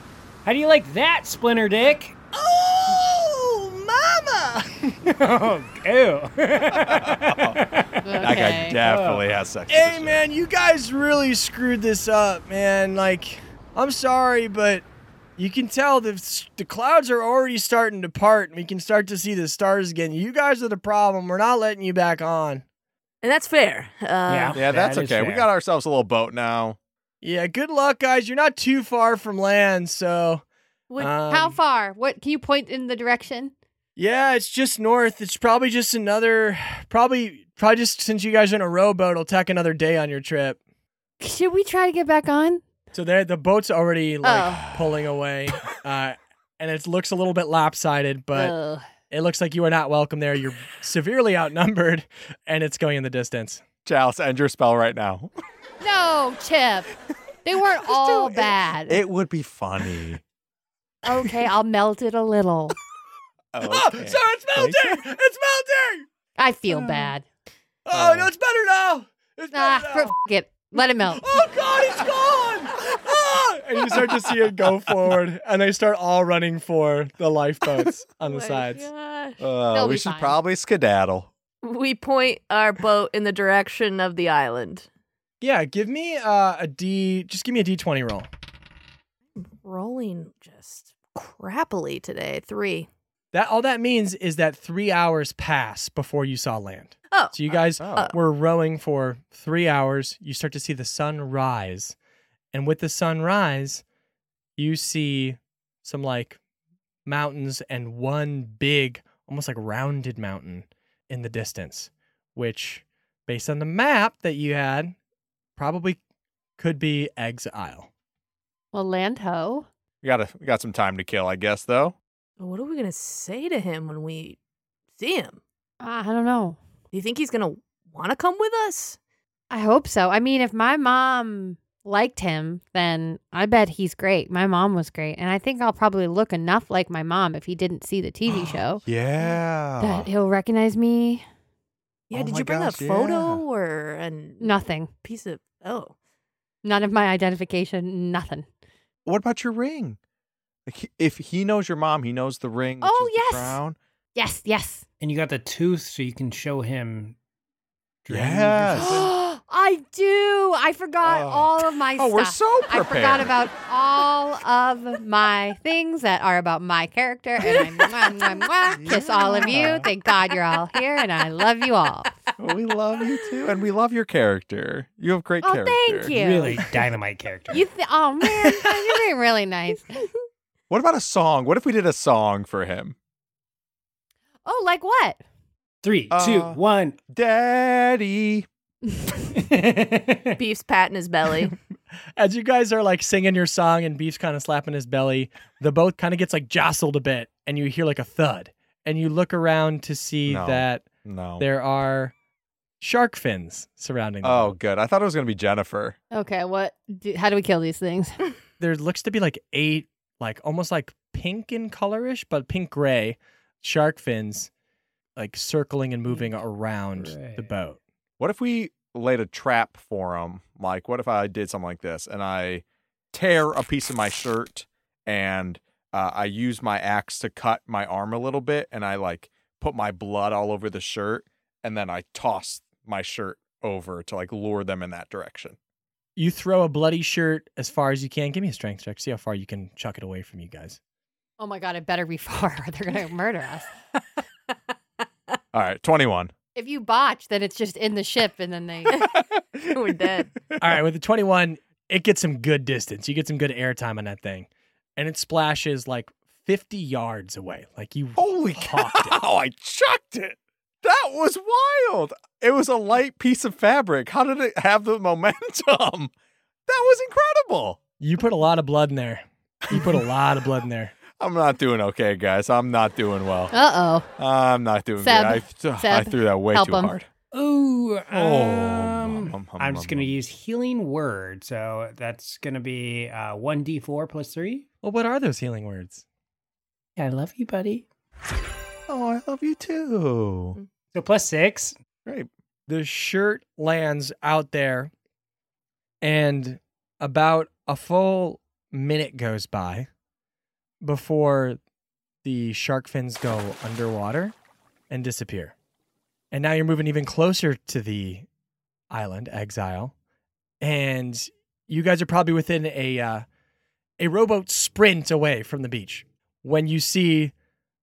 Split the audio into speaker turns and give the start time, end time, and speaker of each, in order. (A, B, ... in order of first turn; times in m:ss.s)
0:00.4-0:02.2 A
0:02.3-0:04.9 B
0:05.0-0:09.2 A
0:06.8-0:07.6 C
0:08.0-0:08.8 D
0:08.2-0:10.2 C
0:09.7-0:14.8 B
0:15.4-0:22.6 B
0:23.2-0:24.6 E
0:24.3-0:25.5 A
0:24.5-0:26.8 C
0:27.2-0:30.4 B
0:31.0-0:31.6 B
0:31.3-0:33.5 D
0:34.0-0:40.6 B
0:41.2-0:42.6 D
0:42.9-0:48.6 B
0:44.2-0:44.6 D
0:44.6-0:44.9 C
0:48.4-0:48.8 D
0:49.1-0:53.6 B
0:53.8-0:55.3 C
0:55.8-0:56.9 D
0:57.4-0:59.0 D
0:57.9-1:00.2 C
1:01.0-1:02.7 D
1:03.5-1:05.0 C
1:03.6-1:06.0 B
1:06.4-1:07.2 D
1:07.8-1:10.2 B
1:07.9-1:08.3 C
1:09.5-1:11.3 D
1:11.1-1:18.9 B
1:18.2-1:19.4 E
1:19.4-1:21.3 C
1:19.7-1:20.4 D
1:21.6-1:24.9 E
1:25.4-1:28.3 B
1:29.4-1:32.9 E
1:33.3-1:42.0 B
1:37.5-1:38.1 C
1:42.5-1:43.8 B
1:44.6-1:46.4 B
1:47.0-1:54.9 B
1:55.6-1:56.0 B
1:56.6-1:57.9 B
1:58.7-1:59.7 D
2:00.0-2:02.0 C
2:02.4-2:04.4 E
2:04.9-2:05.4 E
2:05.8-2:06.6 D
2:06.9-2:09.0 E
2:09.5-2:18.8 D
2:18.3-2:20.1 C
2:19.8-2:21.2 D
2:22.1-2:25.9 E
2:22.1-2:23.4 C
2:24.4-2:24.9 D
2:26.6-2:28.5 D
2:29.0-2:30.0 C
2:30.6-2:33.8 C
2:32.8-2:33.6 D
2:34.1-2:34.8 D
2:35.0-2:37.2 A
2:38.0-2:39.1 A
2:38.1-2:39.1 C
2:38.8-2:52.1 D
2:41.0-2:43.5 C
2:48.8-2:49.9 C
2:52.4-2:56.1 C
2:55.4-2:56.6 D
2:56.1-2:57.6 A
2:57.5-3:00.0 D
3:00.7-3:02.9 C
3:04.4-3:05.2 D
3:05.8-3:07.0 A
3:06.1-3:08.5 C
3:09.3-3:10.4 A
3:10.4-3:11.5 E
3:12.2-3:22.1 B
3:20.2-3:21.4 C
3:22.8-3:24.6 B
3:24.2-3:26.0 C
3:26.1-3:28.2 D
3:28.6-3:34.5 B
3:35.2-3:37.8 B
3:36.1-3:36.4 A
3:36.9-3:37.5 A
3:38.2-3:55.6 C
3:56.2-4:00.8 B
4:01.4-4:03.7 D
4:05.5-4:06.3 C
4:06.6-4:09.0 D
4:09.7-4:10.3 E
4:10.6-4:19.2 B
4:18.2-4:26.1 C
4:26.7-4:27.8 C
4:28.0-4:31.0 B
4:31.1-4:33.5 C
4:33.5-4:34.1 D
4:34.2-4:37.1 C
4:35.0-4:36.9 D
4:37.3-4:44.6 A
4:38.1-4:40.2 C
4:44.8-4:46.0 B
4:47.0-4:47.8 A
4:48.9-4:50.6 C
4:50.9-4:51.8 A
4:52.7-4:54.9 B
4:56.0-4:59.9 B
5:00.8-5:01.6 B
5:02.2-5:04.3 B
5:04.9-5:05.5 B
5:06.3-5:08.3 B
5:08.9-5:09.9 B
5:10.6-5:13.2 B
5:14.0-5:17.3 B